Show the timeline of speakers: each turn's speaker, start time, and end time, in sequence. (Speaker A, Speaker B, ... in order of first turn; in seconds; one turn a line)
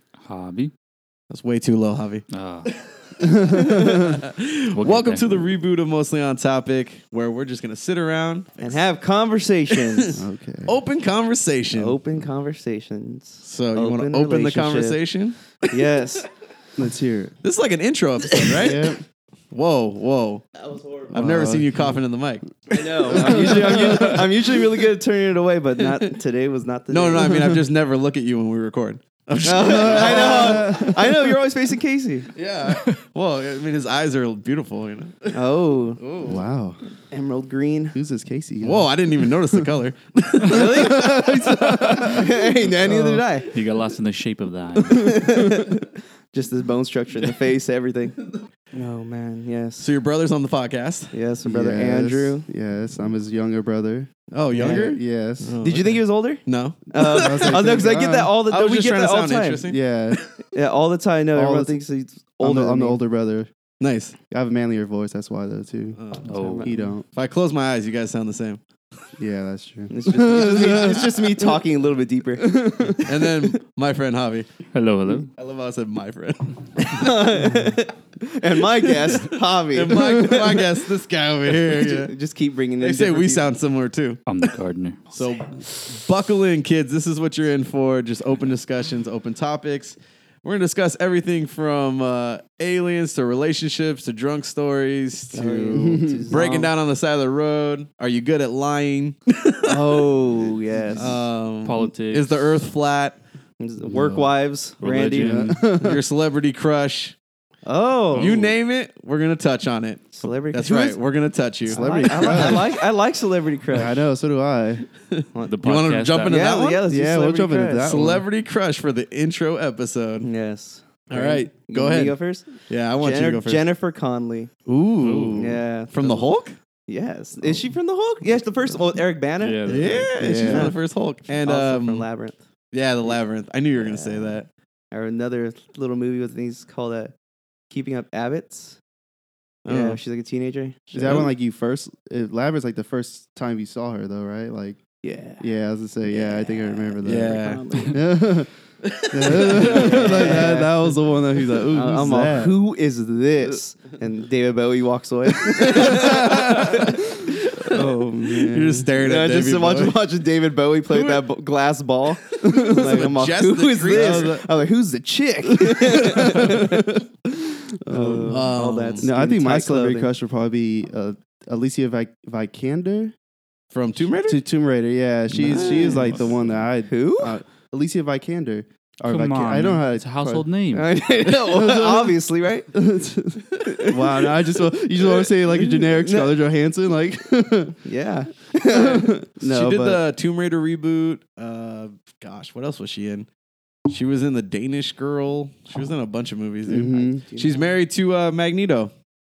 Speaker A: 0.2-0.7
Speaker B: 1.3-2.2
Speaker A: 2.3-2.7
Speaker B: 3.2-8.8
Speaker C: 3.2-4.2
Speaker A: 4.7-5.5
Speaker D: 8.6-10.1
Speaker B: 9.7-10.1
Speaker C: 10.1-10.8
Speaker B: 10.7-11.9
Speaker D: 11.7-15.0
Speaker B: 13.4-15.9
Speaker D: 15.6-16.3
Speaker C: 16.8-17.3
Speaker B: 17.4-18.9
Speaker C: 18.5-19.0
Speaker B: 19.5-20.4
Speaker D: 20.6-21.1
Speaker B: 21.1-24.2
Speaker C: 21.1-21.9
Speaker D: 22.7-27.5
Speaker C: 23.1-24.1
Speaker B: 26.9-31.0
Speaker D: 29.4-32.3
Speaker C: 29.5-31.2
Speaker B: 32.3-35.4
Speaker A: 32.7-33.0
Speaker D: 35.3-36.0
Speaker B: 36.0-36.4
Speaker C: 36.2-36.8
Speaker D: 37.1-38.0
Speaker C: 37.9-39.7
Speaker B: 38.6-41.3
Speaker D: 40.5-43.5
Speaker C: 40.5-43.2
Speaker A: 43.5-45.4
Speaker D: 44.8-48.2
Speaker D: 48.7-49.9
Speaker B: 49.8-51.1
Speaker D: 51.1-52.5
Speaker C: 51.5-55.5
Speaker B: 54.3-57.6
Speaker D: 54.5-54.9
Speaker D: 55.6-59.6
Speaker C: 57.0-58.3
Speaker B: 58.5-60.2
Speaker C: 59.6-60.2
Speaker D: 60.5-63.0
Speaker C: 61.3-61.8
Speaker C: 62.4-63.5
Speaker B: 63.8-64.2
Speaker C: 64.3-66.0
Speaker B: 66.0-66.3
Speaker A: 66.3-66.7
Speaker D: 66.3-66.9
Speaker C: 66.6-67.0
Speaker B: 67.1-68.6
Speaker C: 69.2-71.5
Speaker D: 69.9-73.5
Speaker B: 70.6-70.9
Speaker C: 72.4-73.1
Speaker B: 73.0-74.5
Speaker A: 74.7-75.3
Speaker B: 75.3-77.2
Speaker D: 76.8-80.6
Speaker B: 78.8-82.1
Speaker C: 79.9-80.5
Speaker D: 81.5-83.5
Speaker B: 82.8-84.5
Speaker A: 84.3-85.0
Speaker B: 85.1-100.1
Speaker D: 95.3-96.7
Speaker C: 95.7-96.3
Speaker D: 99.6-101.2
Speaker B: 100.9-103.2
Speaker A: 101.6-102.5
Speaker D: 103.6-105.4
Speaker A: 103.8-105.6
Speaker C: 105.2-106.0
Speaker B: 105.6-107.2
Speaker D: 107.7-108.4
Speaker A: 108.1-108.5
Speaker B: 108.1-112.7
Speaker D: 110.1-111.0
Speaker C: 111.7-112.7
Speaker D: 111.7-114.0
Speaker C: 113.7-114.9
Speaker B: 115.1-116.8
Speaker A: 115.5-116.4
Speaker D: 116.2-117.9
Speaker C: 116.9-118.2
Speaker B: 117.8-120.3
Speaker D: 120.2-124.5
Speaker B: 121.1-123.6
Speaker B: 124.7-126.6
Speaker A: 125.0-125.5
Speaker D: 125.3-126.3
Speaker D: 126.9-130.8
Speaker A: 129.4-130.4
Speaker B: 129.7-132.1
Speaker C: 130.2-130.7
Speaker D: 131.4-132.4
Speaker B: 132.7-134.5
Speaker D: 133.8-134.4
Speaker D: 134.9-137.1
Speaker D: 137.7-138.8
Speaker B: 139.6-140.0
Speaker D: 139.7-141.2
Speaker C: 140.9-144.8
Speaker B: 141.0-141.3
Speaker D: 145.0-145.4
Speaker C: 145.4-148.5
Speaker D: 146.1-148.1
Speaker B: 147.0-147.6
Speaker B: 148.8-150.4
Speaker C: 149.0-152.5
Speaker D: 149.5-150.8
Speaker D: 151.7-157.0
Speaker B: 155.6-160.0
Speaker C: 155.6-156.9
Speaker C: 157.6-158.9
Speaker D: 157.7-158.1
Speaker D: 159.0-166.9
Speaker B: 160.9-161.2
Speaker C: 162.4-162.9
Speaker B: 162.4-164.4
Speaker C: 163.9-164.5
Speaker C: 165.4-167.0
Speaker C: 167.7-173.1
Speaker D: 167.8-170.1
Speaker B: 168.2-169.1
Speaker B: 173.7-174.4
Speaker C: 174.2-180.4
Speaker B: 175.4-176.1
Speaker D: 175.5-176.0
Speaker A: 175.7-176.6
Speaker D: 176.9-177.4
Speaker A: 179.1-180.9
Speaker D: 180.7-182.7
Speaker C: 181.3-182.1
Speaker C: 182.7-187.8
Speaker D: 183.6-184.3
Speaker D: 185.0-186.4
Speaker D: 187.8-189.2
Speaker C: 188.7-190.0
Speaker B: 189.4-193.3
Speaker B: 193.9-198.9
Speaker C: 196.7-197.2
Speaker D: 196.9-197.8